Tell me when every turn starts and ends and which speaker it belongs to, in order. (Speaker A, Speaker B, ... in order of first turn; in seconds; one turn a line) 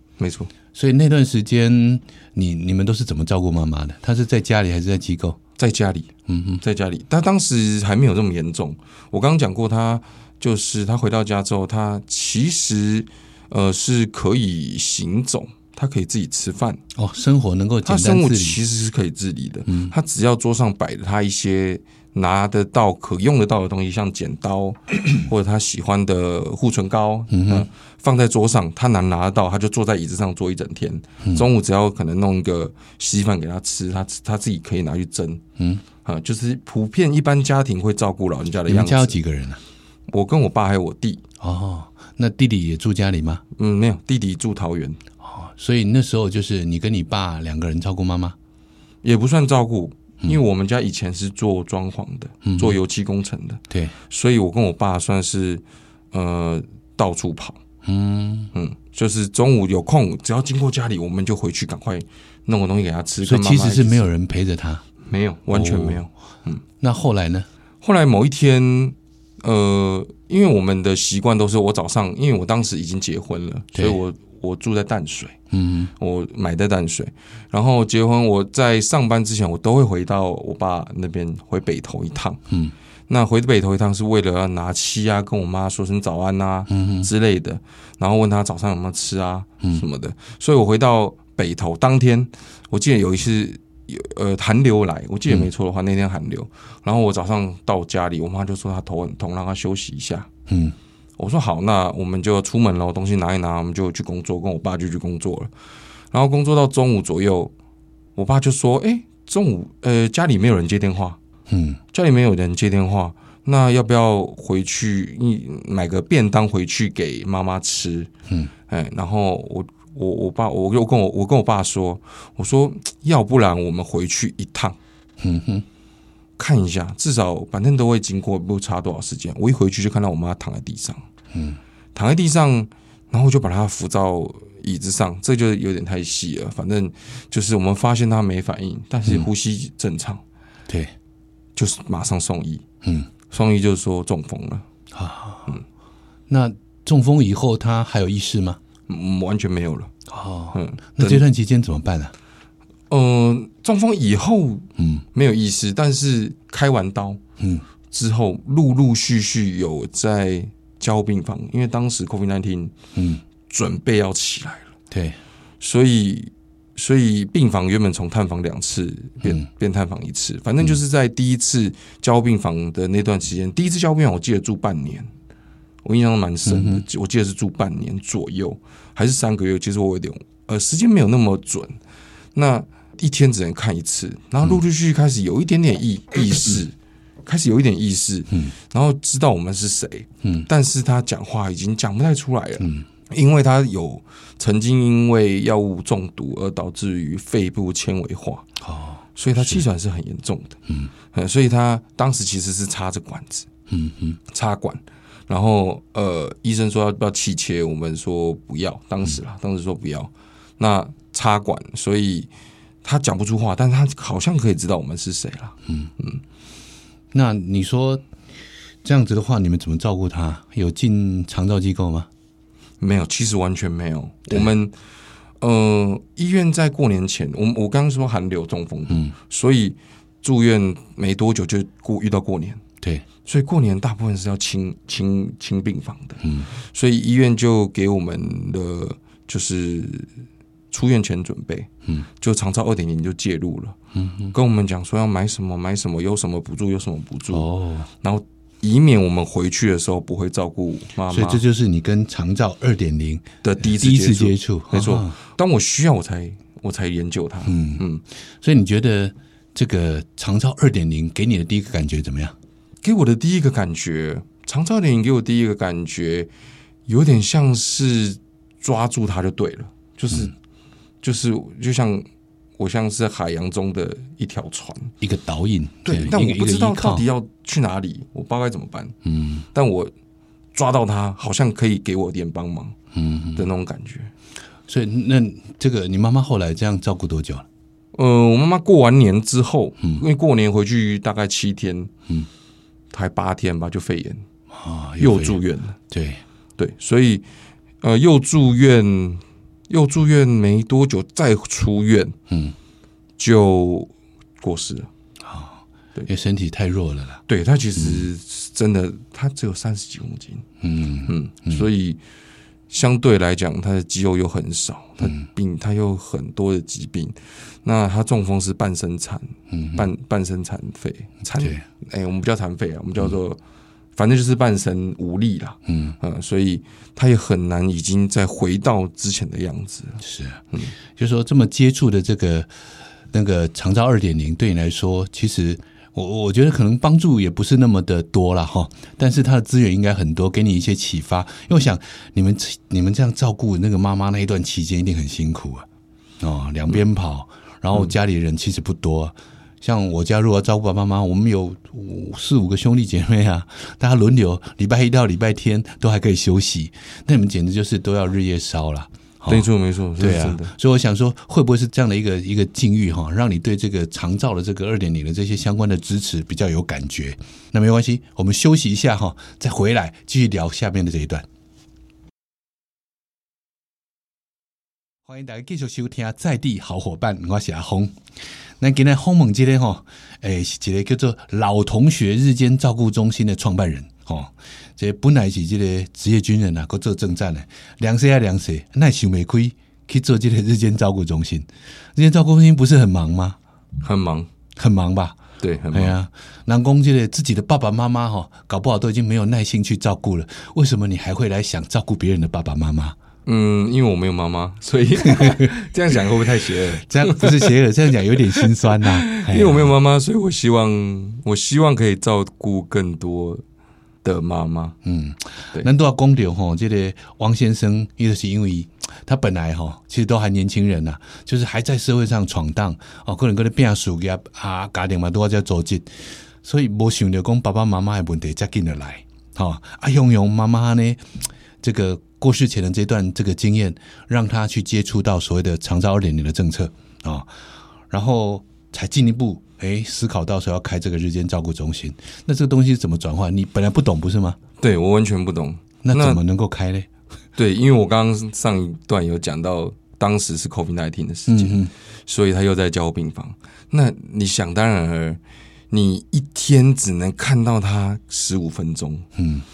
Speaker A: 0.2-0.5
Speaker B: 0.7-5.4
Speaker A: 5.6-6.1
Speaker B: 6.3-6.6
Speaker A: 6.6-16.8
Speaker B: 16.9-18.6
Speaker A: 17.9-35.4
Speaker B: 19.7-19.9
Speaker B: 27.3-27.7
Speaker B: 31.2-31.5
Speaker B: 35.6-35.8
Speaker A: 36.0-39.2
Speaker B: 38.7-39.6
Speaker A: 40.1-41.2
Speaker B: 41.4-43.4
Speaker A: 43.5-45.0
Speaker B: 45.2-48.4
Speaker A: 49.0-57.6
Speaker B: 52.4-52.8
Speaker B: 57.8-58.5
Speaker A: 58.5-64.0
Speaker B: 63.2-64.8
Speaker A: 65.0-66.6
Speaker B: 65.5-66.0
Speaker B: 66.8-67.5
Speaker A: 67.8-75.4
Speaker B: 73.7-74.0
Speaker B: 75.5-75.9
Speaker A: 76.0-82.4
Speaker A: 83.1-100.3
Speaker B: 86.7-87.1
Speaker B: 100.5-100.7
Speaker A: 101.2-105.5
Speaker A: 106.1-107.5
Speaker A: 108.2-111.2
Speaker B: 111.5-111.8
Speaker A: 111.9-118.1
Speaker A: 118.7-124.8
Speaker B: 125.2-125.6
Speaker A: 126.4-131.0
Speaker B: 131.3-131.6
Speaker A: 131.9-140.2
Speaker A: 141.5-142.6
Speaker B: 142.8-143.1
Speaker A: 143.3-144.6
Speaker B: 144.9-145.6
Speaker B: 146.3-148.6
Speaker A: 148.9-149.9
Speaker B: 150.1-152.1
Speaker A: 150.5-151.2
Speaker A: 152.9-157.2
Speaker B: 154.8-155.0
Speaker B: 157.4-157.6
Speaker A: 157.9-162.7
Speaker B: 162.9-163.2
Speaker A: 163.5-164.7
Speaker B: 164.9-165.2
Speaker A: 165.6-175.1
Speaker A: 175.8-181.8
Speaker B: 176.5-176.8
Speaker A: 182.3-198.4
Speaker B: 190.2-190.5
Speaker B: 192.6-192.8
Speaker B: 198.6-199.6
Speaker A: 199.2-200.6
Speaker A: 201.1-203.5
Speaker B: 203.7-204.2
Speaker A: 204.3-212.3
Speaker A: 212.8-216.2
Speaker B: 217.1-218.0
Speaker B: 218.8-222.1
Speaker A: 222.8-224.7
Speaker A: 225.4-232.6
Speaker B: 228.9-229.1
Speaker A: 233.2-240.1
Speaker B: 236.2-236.5
Speaker A: 240.7-243.8
Speaker B: 243.9-244.3
Speaker A: 244.3-247.5
Speaker B: 247.3-247.9
Speaker A: 248.0-251.4
Speaker B: 251.1-255.2
Speaker A: 253.4-258.0
Speaker B: 257.4-257.8
Speaker B: 258.4-262.3
Speaker A: 262.8-266.3
Speaker A: 266.9-270.3
Speaker A: 271.0-272.1
Speaker A: 272.6-274.9
Speaker B: 275.0-277.1
Speaker A: 275.9-278.9
Speaker B: 279.0-279.4
Speaker A: 279.5-279.9
Speaker A: 280.5-282.8
Speaker B: 282.9-283.5
Speaker A: 283.3-284.1
Speaker B: 284.7-287.4
Speaker A: 287.9-291.9
Speaker A: 292.9-294.2
Speaker B: 294.5-296.2
Speaker A: 295.0-295.8
Speaker A: 296.6-297.2
Speaker A: 297.8-302.2
Speaker B: 302.3-302.5
Speaker A: 303.2-304.9
Speaker B: 305.2-307.2
Speaker A: 307.3-310.4
Speaker B: 307.8-308.1
Speaker B: 310.6-311.6
Speaker A: 311.1-312.0
Speaker A: 312.7-323.4
Speaker B: 319.5-319.9
Speaker B: 321.4-321.6
Speaker A: 323.9-330.0
Speaker B: 325.7-326.0
Speaker B: 330.0-330.4
Speaker B: 330.9-332.5
Speaker B: 333.1-345.6
Speaker B: 346.2-359.5
Speaker A: 359.3-360.5
Speaker B: 360.0-371.2
Speaker B: 375.1-377.9
Speaker B: 378.6-393.4
Speaker A: 393.8-394.3
Speaker B: 394.6-402.9
Speaker A: 395.4-395.9
Speaker A: 403.2-407.5
Speaker B: 405.1-405.5
Speaker B: 406.8-409.7
Speaker A: 408.1-413.4
Speaker A: 414.0-414.8
Speaker B: 414.8-425.9
Speaker B: 426.4-431.0
Speaker B: 431.6-437.3
Speaker B: 437.9-444.4
Speaker A: 444.6-446.2
Speaker B: 445.8-446.9
Speaker A: 447.4-459.1
Speaker B: 451.3-451.7
Speaker B: 459.1-459.4